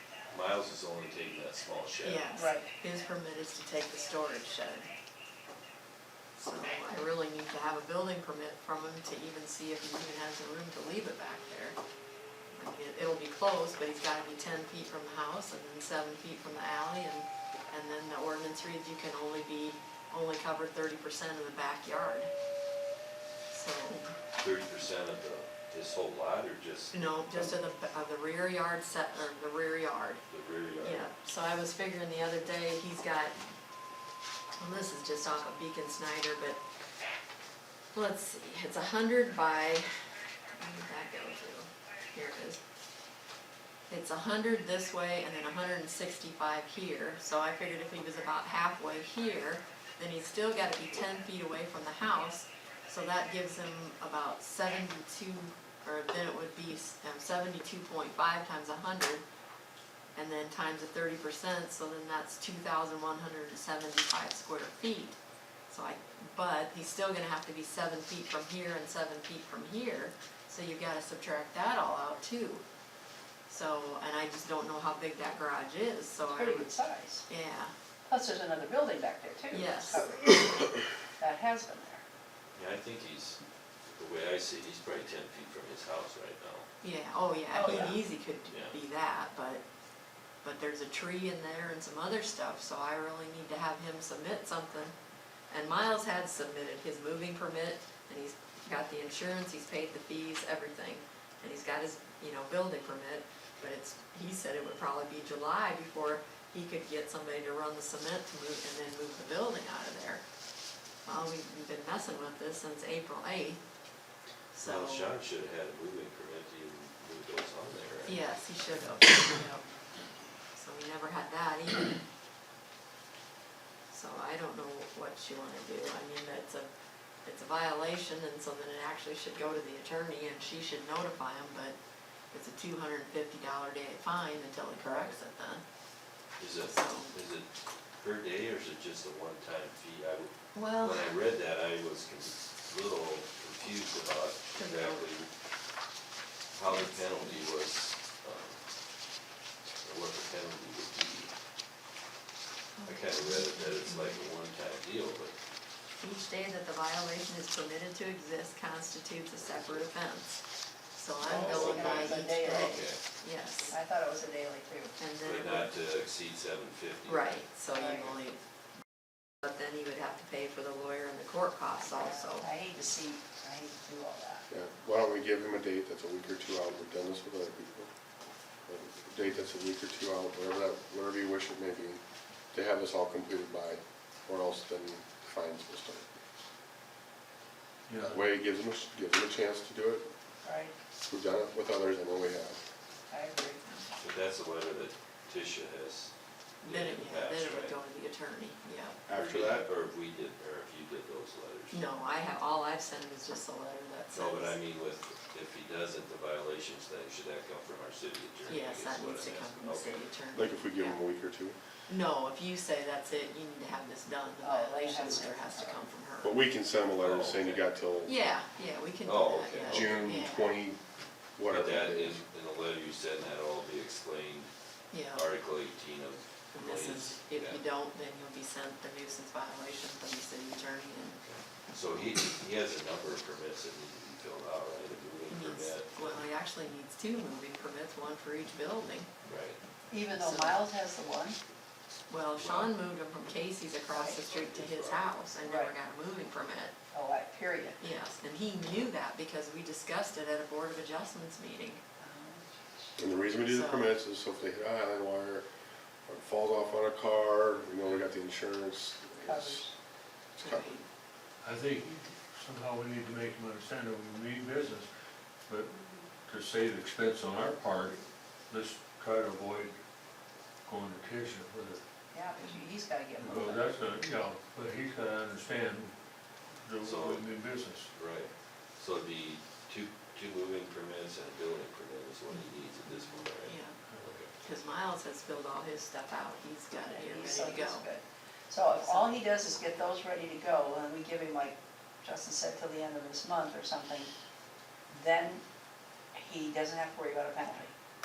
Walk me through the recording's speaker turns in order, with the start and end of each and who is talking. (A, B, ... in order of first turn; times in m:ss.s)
0:00.3-0:02.3 A
0:02.0-0:04.9 B
0:02.3-0:02.7 C
0:06.4-0:11.8 B
0:12.5-0:22.3 B
0:23.5-0:24.1 B
0:24.4-0:26.9 A
0:26.9-0:30.2 B
0:30.3-0:31.1 A
0:30.8-0:33.4 B
0:34.6-0:36.6 B
0:37.9-0:42.6 B
0:43.9-0:59.2 B
1:00.2-1:05.2 B
1:05.7-1:12.6 B
1:13.5-1:16.7 B
1:16.3-1:17.3 C
1:17.3-1:17.7 B
1:18.1-1:22.0 C
1:19.5-1:20.1 B
1:22.6-1:23.4 A
1:24.0-1:26.7 A
1:26.8-1:29.6 B
1:27.5-1:28.0 C
1:27.6-1:27.9 A
1:28.5-1:28.8 A
1:30.4-1:34.9 B
1:35.5-1:50.2 B
1:51.1-1:53.6 B
1:54.5-1:55.1 B
1:54.6-1:58.2 A
1:58.1-1:59.7 B
2:00.5-2:02.0 B
2:03.9-2:06.7 B
2:07.2-2:11.8 B
2:12.3-2:15.6 B
2:16.4-2:25.3 A
2:16.6-2:17.1 B
2:20.6-2:21.2 B
2:24.6-2:25.1 B
2:26.5-2:28.6 A
2:26.7-2:27.4 B
2:29.8-2:31.3 A
2:32.8-2:34.3 B
2:32.9-2:35.4 A
2:36.0-2:40.4 B
2:39.4-2:39.8 A
2:41.0-2:43.8 B
2:41.2-2:42.9 C
2:41.2-2:43.0 A
2:43.7-2:45.0 C
2:45.0-2:45.7 B
2:45.2-2:47.4 A
2:47.1-2:48.4 B
2:47.7-2:48.2 C
2:49.4-2:52.5 B
2:51.7-2:54.5 C
2:54.5-2:57.9 D
2:58.7-3:02.0 D
3:02.5-3:06.1 D
3:07.9-3:08.2 E
3:08.0-3:10.1 D
3:10.4-3:10.8 C
3:11.1-3:12.6 D
3:13.1-3:13.6 C
3:13.6-3:13.9 B
3:14.0-3:16.1 A
3:16.6-3:19.0 B
3:16.6-3:17.8 A
3:19.1-3:19.7 D
3:19.1-3:21.9 A
3:21.7-3:24.6 B
3:24.1-3:30.1 A
3:28.5-3:31.0 B
3:30.3-3:31.6 D
3:31.9-3:36.4 B
3:34.4-3:35.8 C
3:36.2-3:38.2 D
3:37.0-3:37.7 A
3:38.0-3:40.6 B
3:39.0-3:40.0 A
3:39.6-3:40.8 D
3:41.4-3:42.2 D
3:41.5-3:44.5 A
3:44.9-3:45.2 B
3:45.1-3:47.6 A
3:46.5-3:51.2 B
3:51.2-3:56.2 A
3:55.3-3:59.1 B
3:59.2-3:59.6 A
3:59.9-4:01.4 C
4:00.1-4:00.7 B
4:02.1-4:06.7 B
4:02.4-4:02.7 A
4:03.9-4:04.2 C
4:04.2-4:05.1 A
4:05.4-4:05.7 C
4:06.9-4:07.8 C
4:07.8-4:11.8 B
4:12.0-4:13.0 C
4:13.0-4:15.5 D
4:13.4-4:13.9 B
4:16.1-4:19.6 D
4:19.2-4:19.8 C
4:20.4-4:20.8 D
4:20.4-4:20.8 B
4:21.4-4:24.9 E
4:25.5-4:29.8 E
4:30.7-4:31.8 E
4:32.1-4:33.8 C
4:33.2-4:36.0 E
4:36.6-4:37.9 E
4:36.8-4:37.2 A
4:37.9-4:44.3 A
4:43.4-4:43.8 B
4:44.3-4:47.9 B
4:46.8-4:54.1 C
4:48.8-4:49.2 B
4:54.9-4:55.4 C
4:56.1-4:57.7 C